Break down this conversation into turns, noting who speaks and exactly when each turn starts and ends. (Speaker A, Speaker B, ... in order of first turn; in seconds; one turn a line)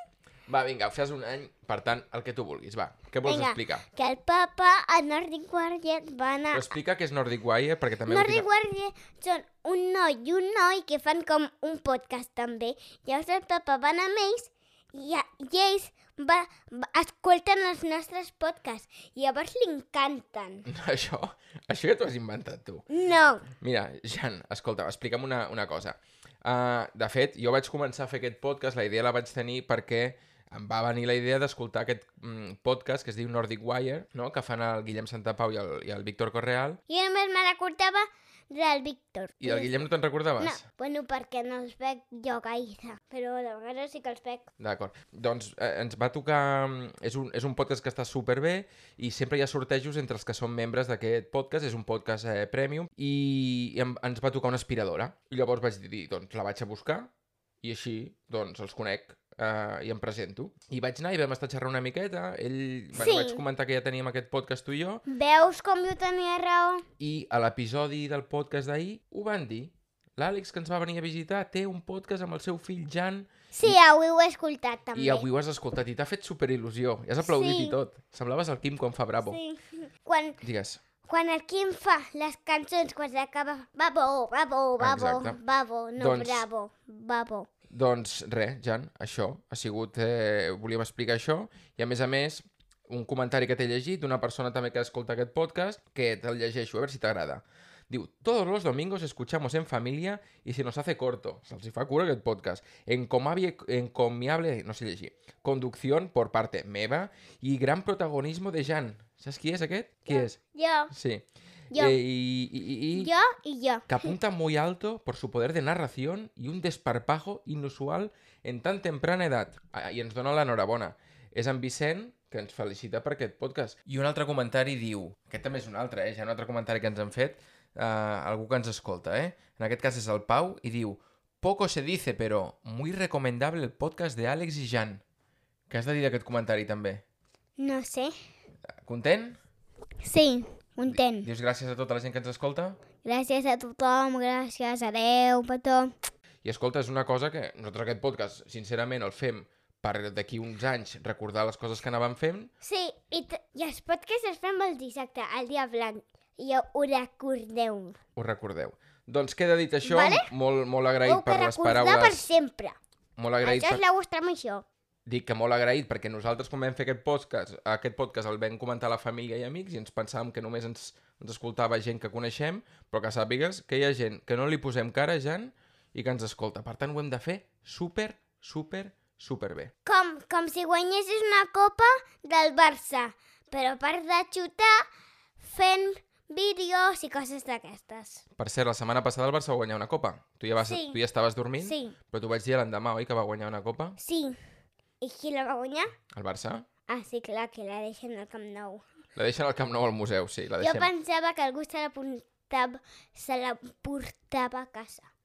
Speaker A: 0.5-3.8
Speaker B: 3.2-6.7
Speaker A: 6.5-8.5
Speaker B: 8.1-20.7
Speaker A: 20.6-22.9
Speaker B: 22.9-23.5
Speaker A: 23.5-36.8
Speaker B: 36.9-39.7
Speaker A: 39.4-40.6
Speaker B: 40.4-44.5
Speaker A: 44.6-57.1
Speaker A: 57.6-65.0
Speaker B: 63.0-63.4
Speaker B: 65.0-66.8
Speaker A: 67.0-73.8
Speaker B: 73.5-75.2
Speaker A: 74.9-79.4
Speaker B: 77.2-77.8
Speaker B: 79.2-80.4
Speaker A: 80.4-80.8
Speaker B: 81.0-87.5
Speaker A: 84.8-85.4
Speaker A: 86.0-86.5
Speaker A: 87.7-110.4
Speaker B: 110.1-110.9
Speaker A: 110.9-113.1
Speaker B: 111.7-112.0
Speaker B: 113.0-114.1
Speaker A: 113.9-135.0
Speaker A: 135.7-137.0
Speaker B: 137.6-138.1
Speaker A: 138.8-139.4
Speaker B: 140.0-141.3
Speaker A: 140.9-142.8
Speaker B: 143.0-145.9
Speaker A: 146.4-152.5
Speaker B: 152.6-158.0
Speaker A: 158.2-162.3
Speaker B: 159.8-160.3
Speaker B: 161.0-162.8
Speaker A: 163.2-163.8
Speaker B: 163.4-164.6
Speaker A: 165.1-179.7
Speaker B: 179.8-184.8
Speaker B: 185.4-188.2
Speaker A: 188.4-194.0
Speaker B: 190.6-191.0
Speaker B: 191.6-191.9
Speaker B: 194.0-194.4
Speaker B: 195.0-195.9
Speaker A: 196.1-196.7
Speaker B: 196.9-198.8
Speaker A: 199.2-200.9
Speaker B: 200.6-205.1